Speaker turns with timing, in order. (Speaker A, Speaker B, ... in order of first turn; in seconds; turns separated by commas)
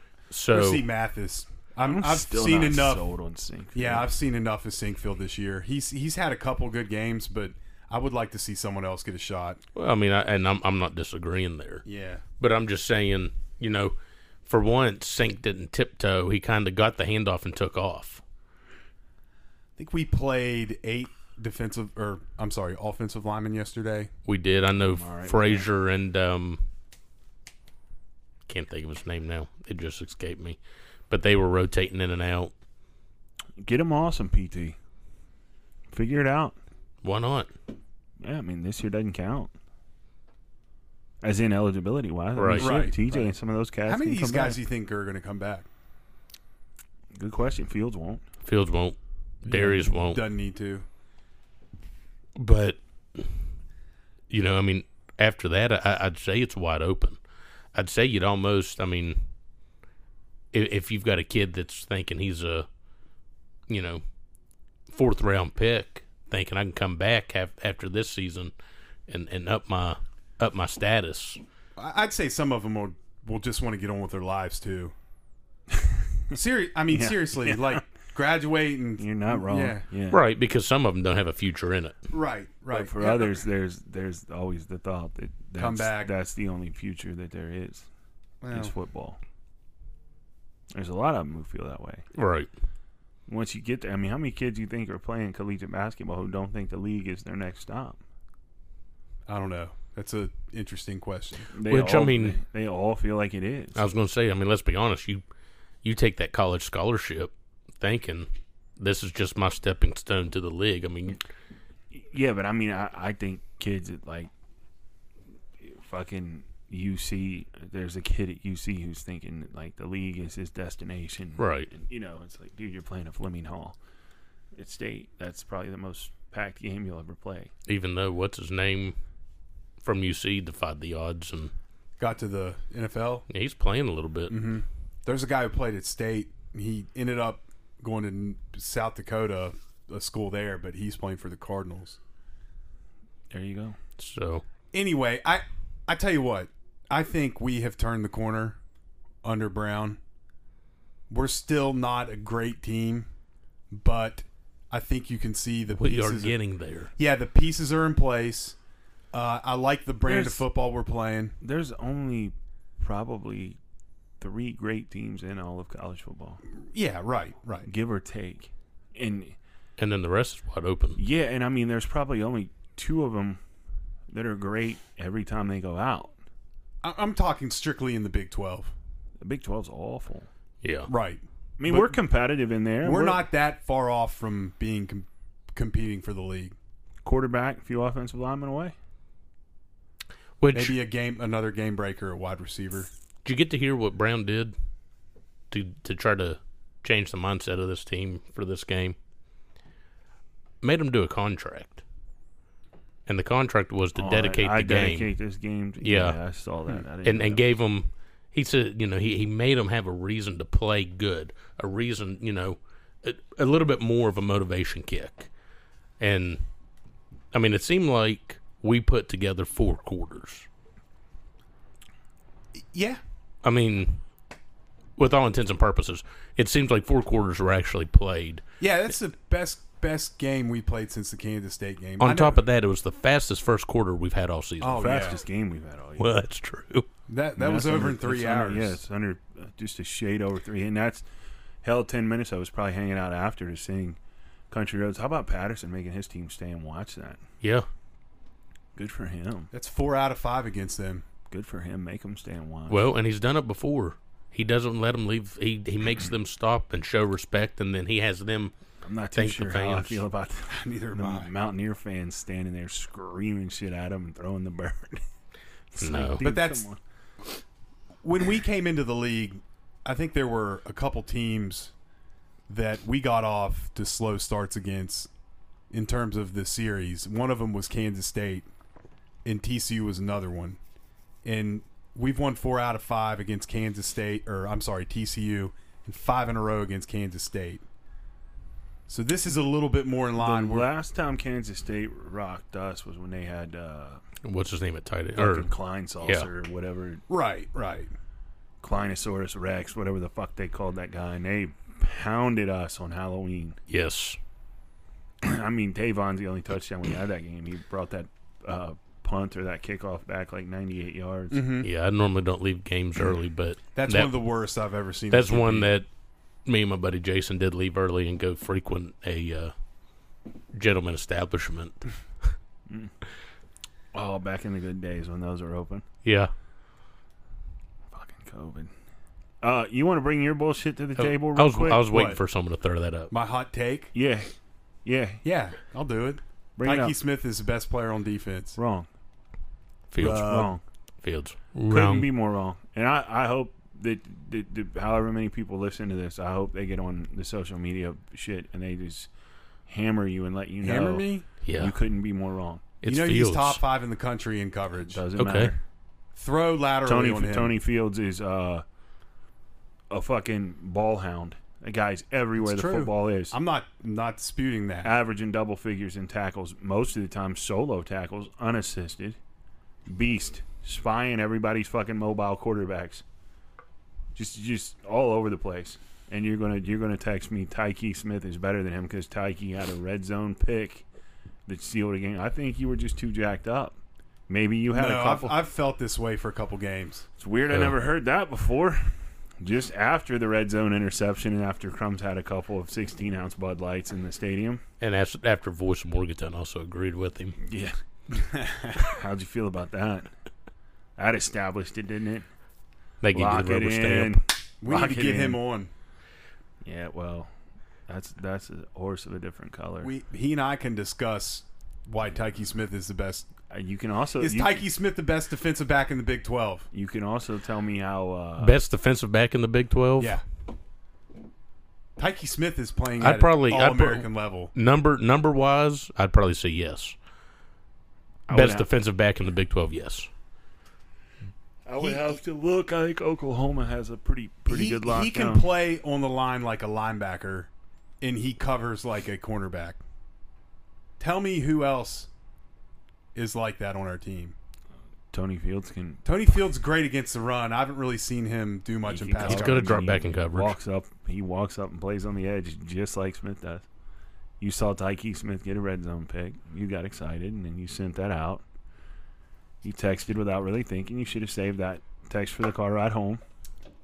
Speaker A: 0.3-0.8, Speaker B: 0.5-3.0, Speaker C: 1.9-4.1, Speaker B: 3.7-9.6, Speaker A: 9.8-11.8, Speaker B: 11.8-12.2, Speaker A: 12.4-13.9, Speaker A: 14.5-18.2, Speaker B: 19.8-24.1, Speaker A: 24.3-26.6, Speaker C: 24.9-25.6, Speaker A: 28.5-30.6, Speaker A: 31.1-32.5, Speaker C: 33.6-34.8, Speaker C: 35.9-36.6, Speaker A: 37.0-37.5, Speaker C: 38.2-39.5, Speaker C: 41.2-44.6, Speaker A: 42.4-42.8, Speaker B: 42.6-43.3, Speaker B: 43.9-45.7, Speaker C: 47.1-48.2, Speaker A: 48.5-50.2, Speaker B: 49.5-50.9, Speaker A: 52.4-53.3, Speaker A: 54.3-57.2, Speaker A: 57.8-59.2, Speaker A: 60.5-62.7, Speaker A: 63.7-64.0, Speaker A: 64.9-68.5, Speaker A: 69.1-71.4, Speaker B: 71.8-74.9, Speaker C: 75.7-76.4, Speaker B: 76.3-79.8, Speaker C: 76.9-77.8, Speaker C: 79.0-80.2, Speaker A: 80.1-82.0, Speaker B: 82.1-83.4, Speaker C: 82.7-87.9, Speaker B: 85.6-86.1, Speaker B: 88.4-88.7, Speaker C: 88.5-89.2, Speaker C: 90.7-92.1, Speaker A: 92.2-92.5, Speaker C: 93.3-98.0, Speaker B: 99.3-101.5, Speaker C: 101.5-103.8, Speaker A: 101.7-102.4, Speaker A: 103.8-105.2, Speaker A: 105.8-108.3, Speaker A: 108.8-111.2, Speaker C: 111.9-114.3, Speaker C: 115.6-123.8, Speaker A: 121.4-121.7, Speaker C: 124.6-127.5, Speaker A: 127.7-129.0, Speaker A: 129.8-131.5, Speaker B: 132.0-133.2, Speaker A: 133.3-134.4, Speaker B: 134.3-142.0, Speaker C: 143.3-143.8, Speaker A: 144.0-144.4, Speaker B: 144.7-148.6, Speaker B: 149.2-150.0, Speaker B: 151.1-153.1, Speaker B: 153.7-156.4, Speaker A: 155.8-156.9, Speaker B: 157.0-158.6, Speaker B: 159.1-161.3, Speaker C: 160.1-160.4, Speaker C: 161.4-163.6, Speaker C: 164.2-166.4, Speaker B: 166.7-167.7, Speaker C: 167.7-169.3, Speaker A: 169.8-171.0, Speaker C: 171.0-173.4, Speaker C: 174.1-176.2, Speaker B: 176.8-178.7, Speaker C: 179.2-180.3, Speaker A: 180.6-180.9, Speaker B: 180.9-182.0, Speaker C: 181.6-183.2, Speaker B: 182.8-186.6, Speaker C: 187.0-188.7, Speaker A: 190.4-190.8, Speaker B: 190.5-192.9, Speaker A: 193.2-194.5, Speaker A: 195.5-199.0, Speaker A: 200.6-201.8, Speaker A: 203.1-205.1, Speaker C: 204.0-207.4, Speaker A: 205.8-206.2, Speaker A: 207.0-215.3, Speaker A: 216.0-216.4, Speaker A: 217.3-220.5, Speaker B: 222.7-223.0, Speaker A: 223.4-224.0, Speaker A: 225.0-228.4, Speaker B: 228.6-232.4, Speaker A: 232.0-235.1, Speaker B: 234.6-235.2, Speaker C: 234.7-236.1, Speaker A: 236.0-236.9, Speaker B: 237.1-238.8, Speaker C: 237.4-241.1, Speaker C: 241.6-244.0, Speaker C: 244.5-247.2, Speaker A: 247.4-247.7, Speaker C: 248.8-249.5, Speaker B: 249.5-251.1, Speaker C: 251.3-252.9, Speaker A: 252.7-258.5, Speaker C: 258.8-265.0, Speaker A: 259.1-260.1, Speaker B: 260.5-261.3, Speaker C: 265.7-266.8, Speaker A: 265.8-266.2, Speaker B: 266.2-266.7, Speaker B: 268.0-271.7, Speaker B: 272.5-275.1, Speaker B: 275.7-278.5, Speaker B: 279.2-280.6, Speaker B: 281.2-287.6, Speaker B: 288.9-290.7, Speaker C: 290.2-294.0, Speaker A: 294.2-295.5, Speaker C: 295.2-297.0, Speaker A: 296.0-296.3, Speaker B: 297.1-297.9, Speaker C: 298.6-303.6, Speaker A: 303.7-304.2, Speaker C: 305.2-311.5, Speaker B: 311.3-311.7, Speaker A: 311.6-314.2, Speaker B: 313.8-315.7, Speaker A: 315.1-315.9, Speaker A: 316.5-319.5, Speaker A: 320.6-321.9, Speaker C: 323.9-325.9, Speaker A: 326.0-326.3, Speaker C: 327.9-328.7, Speaker C: 329.4-331.9, Speaker A: 331.0-333.1, Speaker B: 331.9-332.2, Speaker B: 333.1-333.9, Speaker C: 333.9-334.3, Speaker C: 334.9-335.2, Speaker B: 335.2-338.6, Speaker C: 336.6-336.9, Speaker C: 338.6-338.9, Speaker A: 339.9-340.2, Speaker B: 340.0-340.6, Speaker C: 340.0-340.6, Speaker A: 341.0-342.1, Speaker C: 341.7-349.1, Speaker C: 349.7-351.0, Speaker B: 350.6-351.3, Speaker A: 351.4-351.8, Speaker C: 351.6-352.7, Speaker A: 352.8-353.6, Speaker B: 352.9-355.0, Speaker C: 354.9-355.6, Speaker A: 355.2-355.5, Speaker B: 356.1-357.6, Speaker C: 356.9-358.6, Speaker C: 359.9-363.4, Speaker B: 362.4-364.9, Speaker C: 364.8-369.2, Speaker C: 369.9-373.0, Speaker C: 374.1-380.9, Speaker C: 381.5-383.8, Speaker C: 384.3-385.4, Speaker B: 384.7-387.1, Speaker C: 387.2-394.6, Speaker A: 387.5-387.8, Speaker A: 394.8-397.4, Speaker C: 397.5-397.8, Speaker B: 398.1-398.8, Speaker C: 398.8-400.1, Speaker C: 401.0-402.3, Speaker A: 403.0-404.2, Speaker C: 403.1-405.4, Speaker B: 404.6-405.7, Speaker C: 406.6-407.3, Speaker C: 407.9-409.9, Speaker B: 409.8-413.3, Speaker C: 413.5-414.6, Speaker B: 414.2-416.7, Speaker C: 416.7-418.6, Speaker A: 418.4-420.2, Speaker B: 420.0-420.2, Speaker B: 422.0-424.5, Speaker A: 423.0-426.9, Speaker C: 428.3-428.7, Speaker A: 428.3-430.1, Speaker C: 431.7-435.4, Speaker B: 431.8-432.1, Speaker B: 434.5-437.5, Speaker B: 438.0-439.8, Speaker B: 441.0-442.1, Speaker B: 443.1-444.4, Speaker C: 445.1-446.0, Speaker B: 446.1-450.0, Speaker C: 448.9-453.6, Speaker A: 449.2-450.6, Speaker C: 454.4-458.4, Speaker C: 459.6-463.2